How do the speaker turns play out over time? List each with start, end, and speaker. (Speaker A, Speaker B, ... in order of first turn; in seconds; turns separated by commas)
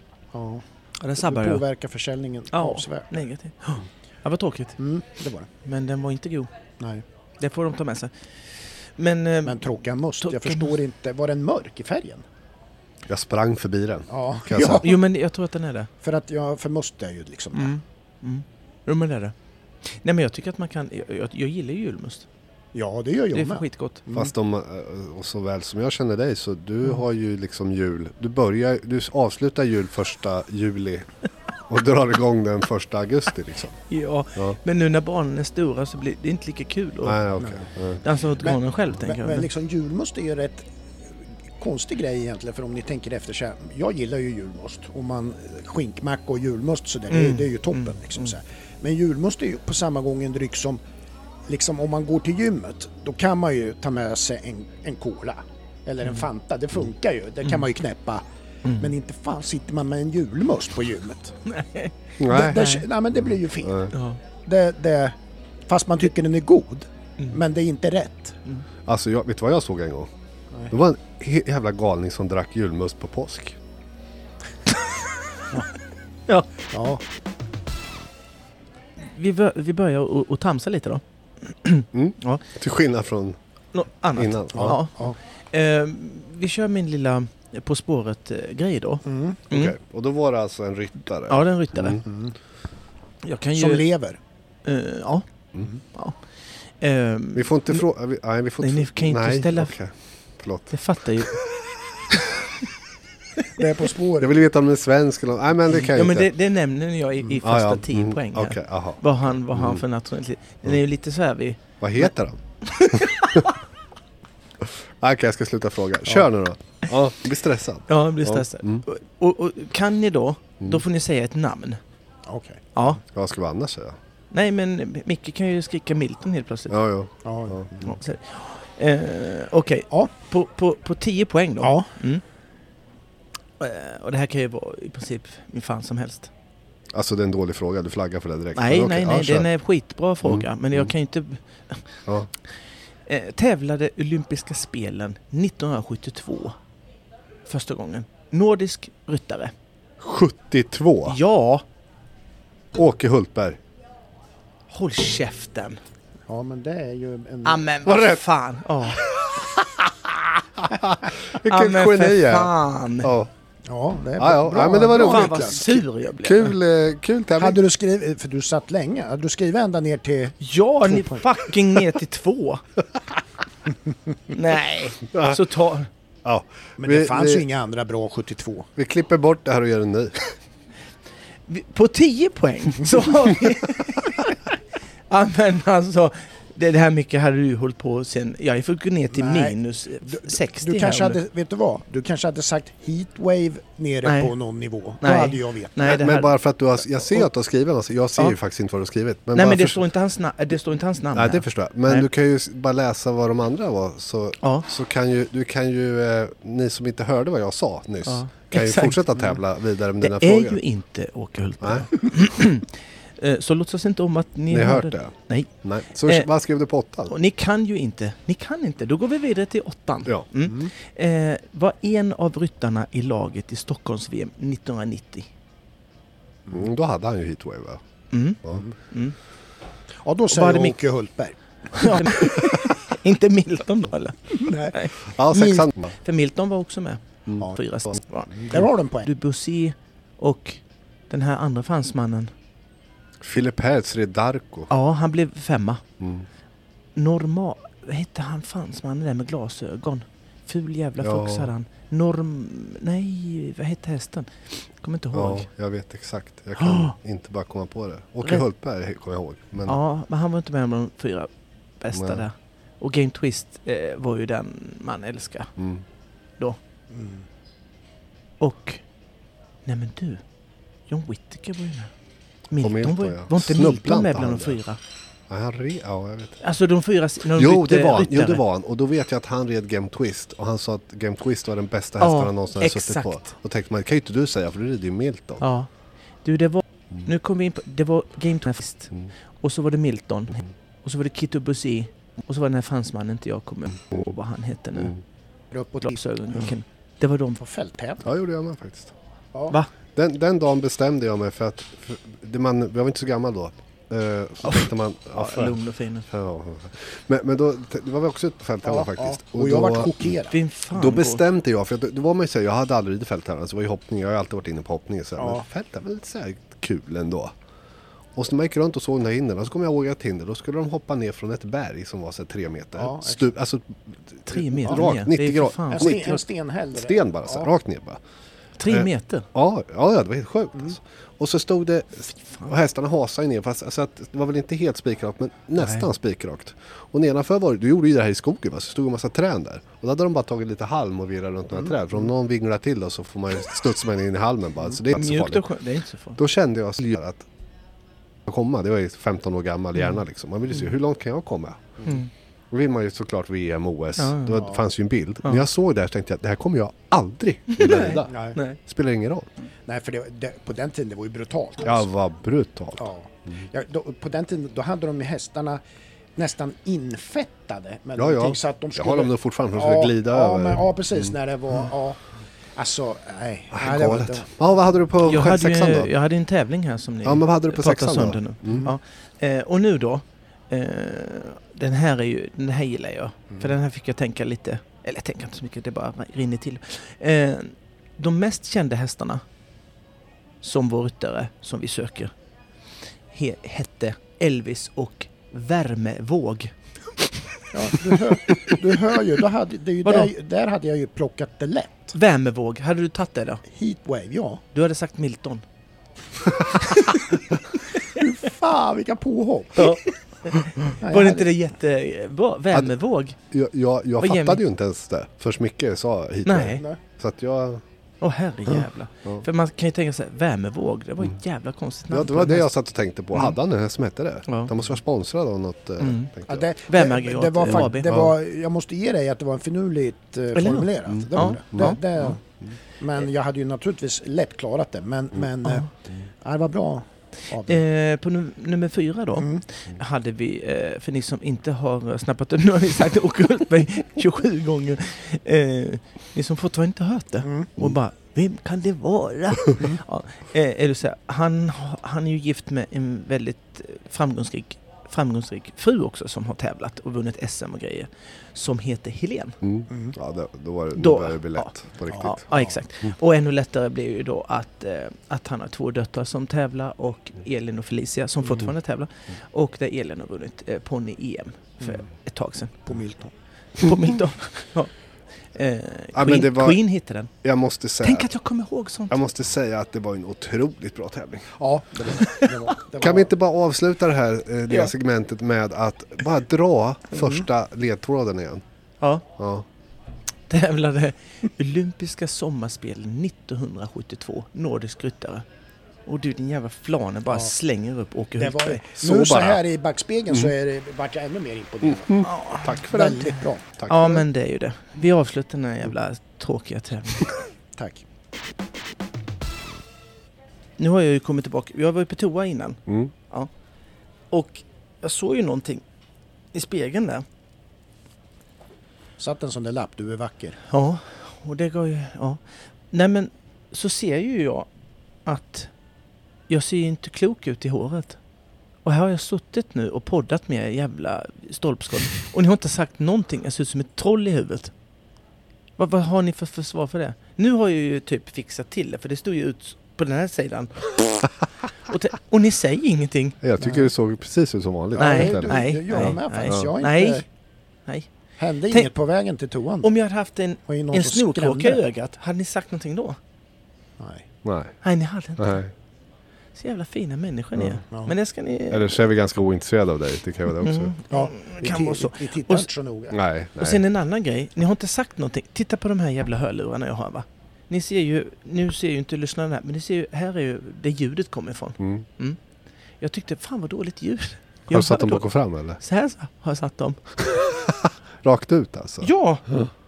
Speaker A: 0.3-0.6, Speaker B: 1.0-1.6, Speaker A: 1.2-3.1, Speaker B: 2.5-4.8, Speaker A: 4.8-5.5, Speaker B: 5.7-6.5, Speaker B: 7.4-9.6, Speaker A: 9.4-12.2, Speaker B: 10.2-10.8, Speaker C: 13.1-14.9, Speaker A: 14.1-15.0, Speaker B: 14.8-15.9, Speaker A: 16.0-17.7, Speaker B: 17.5-19.3, Speaker B: 19.9-22.3, Speaker A: 22.7-24.3, Speaker B: 23.3-24.0, Speaker C: 24.1-31.1, Speaker C: 31.7-33.8, Speaker B: 33.9-37.2, Speaker C: 37.0-38.0, Speaker A: 37.4-37.7, Speaker B: 38.0-39.5, Speaker A: 38.4-40.7, Speaker A: 41.6-50.8, Speaker B: 47.1-48.3, Speaker A: 51.5-58.2, Speaker B: 58.6-58.9, Speaker A: 58.8-61.4, Speaker B: 61.5-62.9, Speaker C: 62.2-62.7, Speaker A: 62.3-63.9, Speaker C: 63.6-63.9, Speaker B: 63.9-64.2, Speaker A: 64.5-65.2, Speaker A: 65.7-68.4, Speaker C: 68.9-70.1, Speaker C: 70.7-73.6, Speaker A: 76.7-77.0, Speaker B: 79.0-82.4, Speaker C: 81.9-83.4, Speaker B: 83.7-89.8, Speaker C: 84.2-84.8, Speaker A: 84.5-85.2, Speaker A: 89.1-89.4, Speaker C: 89.5-92.0, Speaker B: 91.3-92.1, Speaker A: 92.0-92.3, Speaker B: 93.2-93.9, Speaker A: 93.6-94.2, Speaker B: 94.7-95.3, Speaker B: 95.9-96.2, Speaker B: 96.8-97.8, Speaker C: 97.3-101.2, Speaker B: 98.6-99.8, Speaker B: 100.7-101.4, Speaker A: 103.5-104.3, Speaker C: 104.2-106.3, Speaker B: 105.7-113.6, Speaker C: 107.4-109.8, Speaker C: 111.8-113.5, Speaker C: 114.6-118.8, Speaker B: 117.9-121.8, Speaker A: 122.3-122.7, Speaker B: 122.8-123.0, Speaker C: 123.0-124.0, Speaker B: 124.3-126.8, Speaker C: 126.7-128.0, Speaker A: 127.2-127.8, Speaker B: 127.8-132.2, Speaker A: 131.6-131.9, Speaker B: 133.6-136.3, Speaker C: 136.9-139.5, Speaker B: 138.6-142.0, Speaker C: 140.2-140.9, Speaker B: 143.1-146.6, Speaker B: 147.5-149.5, Speaker C: 150.0-151.2, Speaker B: 151.1-151.6, Speaker C: 152.7-153.6, Speaker B: 154.7-155.8, Speaker A: 156.3-157.7, Speaker B: 157.4-159.0, Speaker C: 157.8-158.2, Speaker C: 159.0-159.4, Speaker C: 160.6-163.3, Speaker B: 161.4-163.1, Speaker A: 163.7-165.8, Speaker C: 164.2-165.5, Speaker B: 164.9-166.6, Speaker C: 166.2-167.6, Speaker A: 167.4-171.8, Speaker B: 170.4-172.6, Speaker B: 174.3-175.9, Speaker C: 175.1-175.4, Speaker C: 176.2-177.4, Speaker A: 176.8-178.7, Speaker C: 178.8-180.2, Speaker B: 181.5-184.6, Speaker B: 185.1-191.2, Speaker A: 189.1-196.0, Speaker B: 194.0-194.3, Speaker B: 195.0-196.3, Speaker C: 195.8-199.8, Speaker B: 199.3-202.1, Speaker C: 201.1-210.6, Speaker B: 204.4-204.7, Speaker B: 208.1-209.4, Speaker B: 210.0-215.5, Speaker C: 211.6-211.9, Speaker C: 214.5-217.1, Speaker B: 217.1-225.3, Speaker C: 226.5-227.8, Speaker B: 228.1-229.2, Speaker A: 230.0-232.4, Speaker B: 230.3-230.8, Speaker B: 231.8-242.3, Speaker A: 234.4-234.8, Speaker C: 235.1-235.9, Speaker A: 238.3-239.1, Speaker C: 243.2-244.7, Speaker B: 244.7-245.8, Speaker C: 246.0-246.3, Speaker B: 247.0-255.5, Speaker C: 251.0-251.5, Speaker C: 255.1-259.8, Speaker B: 256.6-256.9, Speaker B: 259.6-265.5, Speaker C: 261.9-262.2, Speaker C: 265.6-265.8, Speaker A: 266.9-267.2, Speaker B: 268.4-268.8, Speaker B: 269.6-270.2, Speaker B: 270.9-271.9, Speaker B: 272.5-274.8, Speaker C: 272.6-274.6, Speaker C: 275.3-276.4, Speaker B: 276.4-278.4, Speaker C: 277.3-285.4, Speaker B: 282.0-283.2, Speaker B: 285.4-285.7, Speaker B: 286.2-295.0, Speaker A: 295.5-296.0, Speaker B: 295.8-297.4, Speaker A: 297.4-298.1, Speaker C: 298.0-298.9, Speaker C: 299.9-305.6, Speaker B: 304.4-306.1, Speaker C: 306.1-310.1, Speaker A: 308.6-310.4, Speaker B: 310.3-311.2, Speaker C: 310.7-317.3, Speaker A: 315.2-315.5, Speaker C: 318.1-326.1, Speaker A: 322.8-323.3, Speaker B: 324.3-326.2, Speaker A: 325.7-327.5, Speaker C: 326.7-328.0, Speaker B: 328.6-329.3, Speaker C: 328.7-345.4, Speaker B: 335.6-335.9, Speaker B: 344.9-346.2, Speaker C: 346.2-347.3, Speaker C: 348.2-351.8, Speaker C: 352.5-359.3, Speaker B: 354.0-354.4, Speaker B: 357.5-358.6, Speaker A: 358.1-358.4, Speaker A: 359.7-361.9, Speaker C: 361.6-363.4, Speaker A: 362.8-365.6, Speaker A: 366.2-372.0, Speaker C: 368.0-371.1, Speaker A: 372.6-374.3, Speaker C: 373.5-375.9, Speaker B: 375.0-389.2, Speaker C: 377.0-378.7, Speaker B: 390.4-392.1, Speaker B: 393.1-397.1, Speaker A: 397.5-401.9, Speaker B: 399.8-400.1, Speaker B: 401.9-403.4, Speaker A: 403.5-404.4, Speaker B: 404.5-405.4, Speaker B: 406.6-408.0, Speaker A: 407.8-409.8, Speaker B: 409.6-413.2, Speaker A: 410.6-411.3, Speaker C: 413.3-417.6, Speaker B: 414.0-414.4, Speaker B: 416.2-416.6, Speaker B: 418.0-422.5, Speaker C: 421.9-426.5, Speaker B: 424.3-424.5, Speaker B: 425.8-426.1, Speaker A: 426.3-432.2, Speaker B: 426.7-427.9, Speaker C: 427.5-428.1, Speaker B: 430.4-432.1, Speaker C: 430.9-431.8, Speaker A: 432.8-435.7, Speaker B: 435.4-435.7, Speaker A: 436.2-437.6, Speaker B: 437.4-459.4, Speaker A: 439.2-439.4, Speaker A: 447.3-447.5, Speaker C: 459.4-462.2, Speaker A: 459.7-459.9, Speaker B: 460.8-472.6, Speaker A: 461.9-462.5, Speaker A: 472.7-473.1, Speaker B: 473.6-474.7, Speaker B: 475.3-477.1, Speaker C: 475.9-476.6, Speaker C: 477.2-478.1, Speaker B: 477.8-479.0, Speaker C: 478.9-481.4, Speaker A: 481.4-483.1, Speaker B: 482.0-482.3, Speaker C: 482.8-488.4, Speaker B: 486.9-487.2, Speaker C: 489.2-489.5, Speaker B: 490.3-495.2, Speaker B: 495.9-498.8, Speaker A: 498.2-503.5, Speaker C: 498.8-499.4, Speaker C: 501.6-504.1, Speaker B: 502.0-507.2, Speaker A: 507.6-507.8, Speaker B: 510.6-513.3, Speaker C: 512.7-512.9, Speaker B: 514.1-515.6, Speaker B: 516.3-517.0, Speaker A: 519.0-520.4, Speaker B: 520.5-524.5, Speaker B: 525.1-525.5, Speaker B: 526.3-528.0, Speaker B: 528.6-534.5, Speaker B: 535.6-543.2, Speaker C: 543.2-546.5, Speaker A: 543.4-543.7, Speaker A: 544.8-547.0, Speaker B: 544.8-547.0, Speaker A: 548.2-549.7, Speaker B: 549.6-553.0, Speaker A: 550.5-551.6, Speaker A: 553.8-554.0, Speaker C: 554.2-554.6, Speaker B: 554.6-555.4, Speaker C: 555.2-555.5, Speaker B: 556.4-558.8, Speaker C: 558.5-560.7, Speaker B: 560.4-562.5, Speaker A: 560.9-563.0, Speaker C: 562.9-563.6, Speaker B: 563.4-572.2, Speaker C: 571.6-571.9, Speaker B: 572.8-577.1, Speaker C: 574.5-575.6, Speaker C: 577.0-579.5, Speaker B: 578.8-579.2